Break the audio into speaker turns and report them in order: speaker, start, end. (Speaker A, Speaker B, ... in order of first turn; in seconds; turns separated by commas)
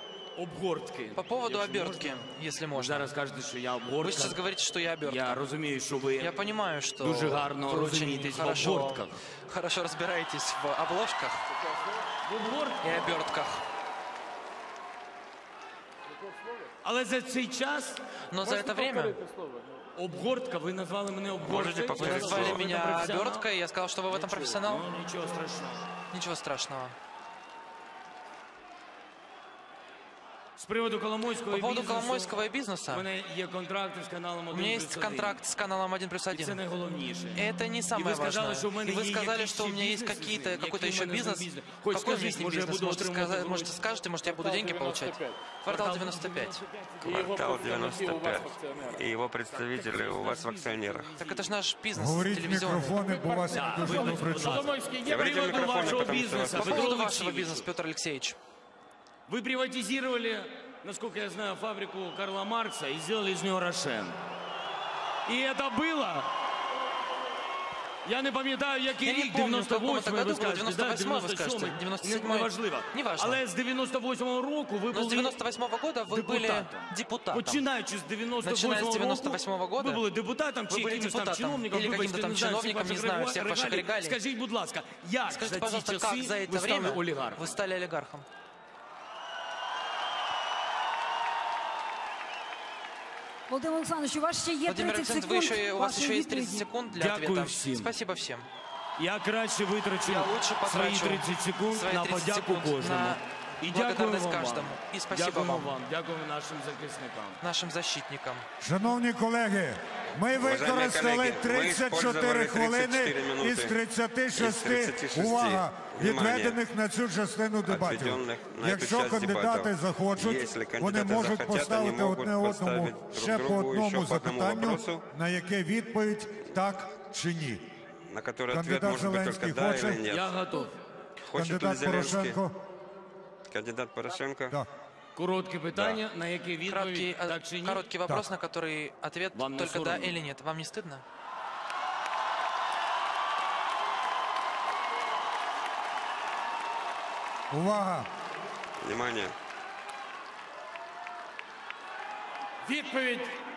Speaker A: 0.4-4.4, Speaker B: 1.2-3.1, Speaker B: 4.0-5.5, Speaker A: 5.0-6.3, Speaker B: 6.2-11.4, Speaker A: 7.0-9.2, Speaker A: 12.2-13.0, Speaker B: 12.8-13.6, Speaker A: 16.8-18.0, Speaker B: 18.3-19.2, Speaker C: 18.4-19.8, Speaker A: 20.0-23.5, Speaker D: 21.4-22.6, Speaker B: 22.0-24.8, Speaker A: 24.1-25.9, Speaker B: 26.1-26.9, Speaker A: 30.6-32.3, Speaker B: 31.5-33.1, Speaker A: 32.9-35.4, Speaker B: 34.5-36.6, Speaker A: 36.3-43.8, Speaker B: 37.4-46.6, Speaker C: 44.2-45.5, Speaker A: 45.7-47.2, Speaker D: 47.0-51.1, Speaker C: 47.1-49.0, Speaker A: 49.5-51.5, Speaker B: 51.2-53.1, Speaker E: 52.0-54.7, Speaker C: 53.0-56.4, Speaker A: 53.5-54.7, Speaker D: 55.0-56.9, Speaker A: 55.3-57.6, Speaker B: 56.5-58.4, Speaker A: 59.3-64.2, Speaker A: 65.3-66.3, Speaker A: 68.0-75.4, Speaker B: 69.0-73.4, Speaker B: 74.9-77.6, Speaker A: 76.1-87.5, Speaker B: 78.4-80.1, Speaker B: 80.7-84.2, Speaker B: 85.3-88.3, Speaker F: 93.5-96.6, Speaker B: 94.7-98.5, Speaker A: 96.9-97.9, Speaker A: 99.0-107.4, Speaker B: 100.0-105.7, Speaker B: 107.4-108.5, Speaker E: 108.6-127.7, Speaker D: 110.4-113.8, Speaker D: 114.3-116.6, Speaker D: 117.7-125.0, Speaker D: 128.1-130.3, Speaker E: 128.5-130.0, Speaker A: 130.1-130.7, Speaker D: 131.3-132.4, Speaker E: 131.3-132.6, Speaker D: 133.5-134.6, Speaker A: 135.2-137.9, Speaker D: 135.8-136.0, Speaker B: 136.7-141.0, Speaker A: 139.3-140.2, Speaker E: 147.5-148.1, Speaker D: 148.8-149.3, Speaker C: 152.6-153.4